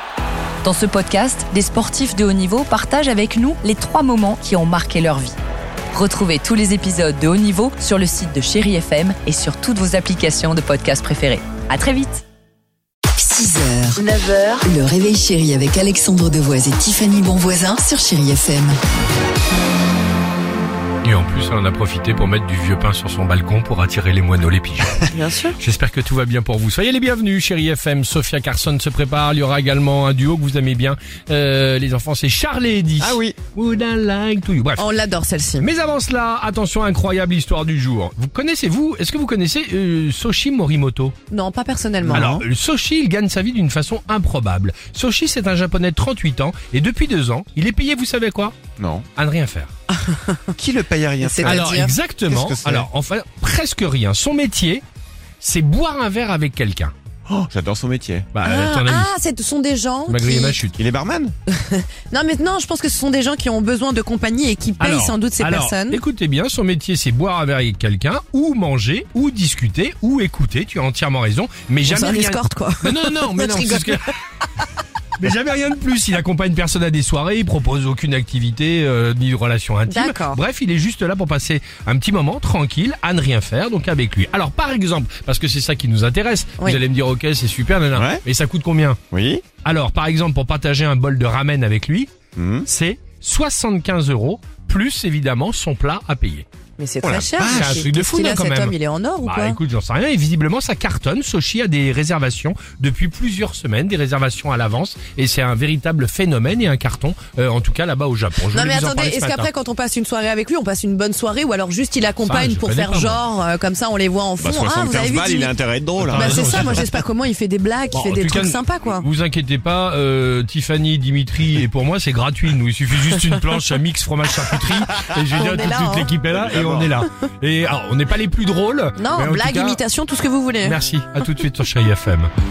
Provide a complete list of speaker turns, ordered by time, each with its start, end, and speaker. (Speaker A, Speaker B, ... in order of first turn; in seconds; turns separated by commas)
Speaker A: 0.6-5.4, Speaker A: 5.9-12.2, Speaker B: 13.2-14.1, Speaker A: 14.0-14.7, Speaker B: 14.6-18.8, Speaker C: 21.0-34.9, Speaker D: 25.1-25.6, Speaker E: 33.0-33.4, Speaker D: 34.8-35.7, Speaker C: 35.6-41.1, Speaker D: 41.3-42.3, Speaker E: 42.1-42.5, Speaker C: 42.1-48.6, Speaker E: 48.8-49.1, Speaker C: 49.2-49.7, Speaker D: 49.9-50.4, Speaker E: 50.6-52.9, Speaker D: 51.2-52.0, Speaker C: 51.5-54.8, Speaker C: 55.4-56.9, Speaker E: 57.3-58.3, Speaker C: 58.3-59.1, Speaker D: 58.4-60.6, Speaker C: 60.1-60.8, Speaker E: 60.7-61.3, Speaker D: 61.5-66.0, Speaker C: 64.8-74.1, Speaker D: 71.9-74.0, Speaker C: 75.2-89.0, Speaker D: 79.9-80.4, Speaker E: 87.9-88.2, Speaker E: 89.1-89.5, Speaker C: 89.6-92.1, Speaker E: 92.4-92.7, Speaker C: 92.7-96.5, Speaker D: 96.8-99.6, Speaker E: 97.0-97.8, Speaker C: 97.4-109.5, Speaker D: 108.5-115.5, Speaker C: 112.2-113.2, Speaker E: 114.4-117.0, Speaker C: 116.0-116.9, Speaker D: 116.2-119.1, Speaker C: 117.9-129.8, Speaker D: 125.3-126.1, Speaker E: 126.2-127.0, Speaker D: 129.0-130.8, Speaker C: 130.6-132.3